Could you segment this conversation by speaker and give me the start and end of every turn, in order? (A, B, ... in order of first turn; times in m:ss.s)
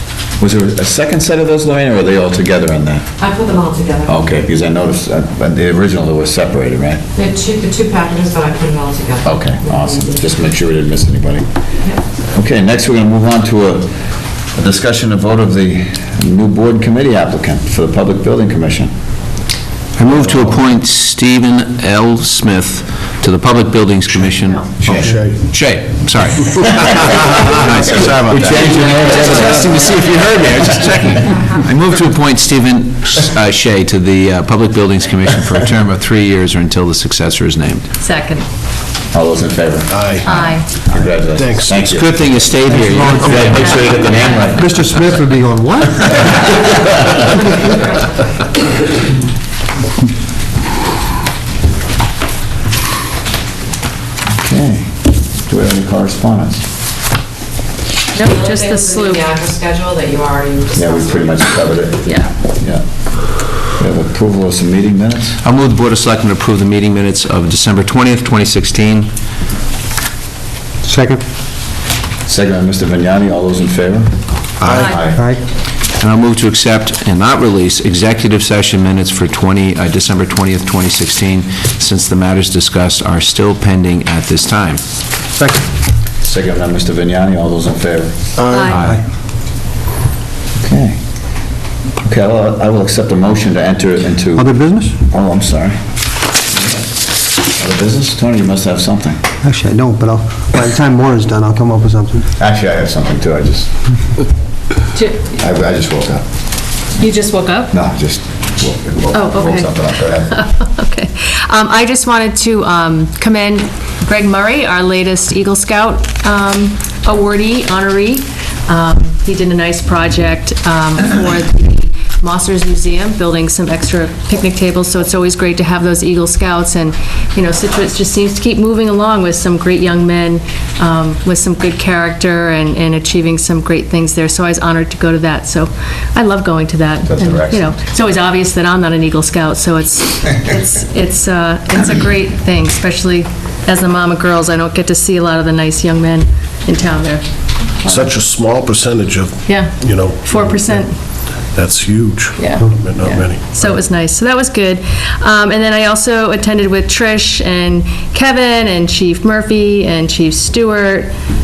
0:00.4-0:03.2 A
0:04.0-0:07.2 A
0:07.5-0:09.1 B
0:09.2-0:11.4 A
0:12.3-0:14.0 A
0:14.5-0:18.9 A
0:20.0-0:37.8 C
0:24.8-0:25.2 A
0:25.0-0:25.4 D
0:28.0-0:30.1 A
0:38.0-0:38.4 E
0:39.1-0:42.1 A
0:39.9-0:40.4 D
0:40.3-0:40.7 E
0:41.3-0:42.5 D
0:41.9-0:43.7 C
0:42.6-0:43.8 F
0:43.2-0:44.7 A
0:43.5-0:44.6 E
0:44.6-0:46.2 F
0:54.4-0:56.6 A
0:58.1-0:59.6 E
0:59.5-1:00.6 B
1:00.7-1:02.8 A
1:02.0-1:02.3 E
1:03.8-1:05.4 A
1:05.4-1:09.1 C
1:10.8-1:11.2 F
1:12.3-1:14.1 A
1:14.6-1:15.0 D
1:14.7-1:15.2 A
1:15.1-1:15.4 F
1:16.0-1:24.8 C
1:25.4-1:25.6 F
1:26.2-1:28.2 A
1:28.4-1:28.9 D
1:28.5-1:28.8 E
1:30.6-1:31.0 A
1:32.0-1:34.5 A
1:34.3-1:35.0 F
1:35.1-1:35.8 A
1:37.6-1:39.2 A
1:39.4-1:42.3 F
1:42.4-1:43.7 A
1:44.9-1:45.2 E
1:45.4-1:46.2 A
1:47.0-1:47.7 E
1:47.7-1:50.4 A
1:49.1-2:27.2 E
2:17.0-2:17.7 A
2:27.8-2:30.8 D
2:29.5-2:31.0 E
2:31.5-2:33.8 D
2:32.4-2:41.1 E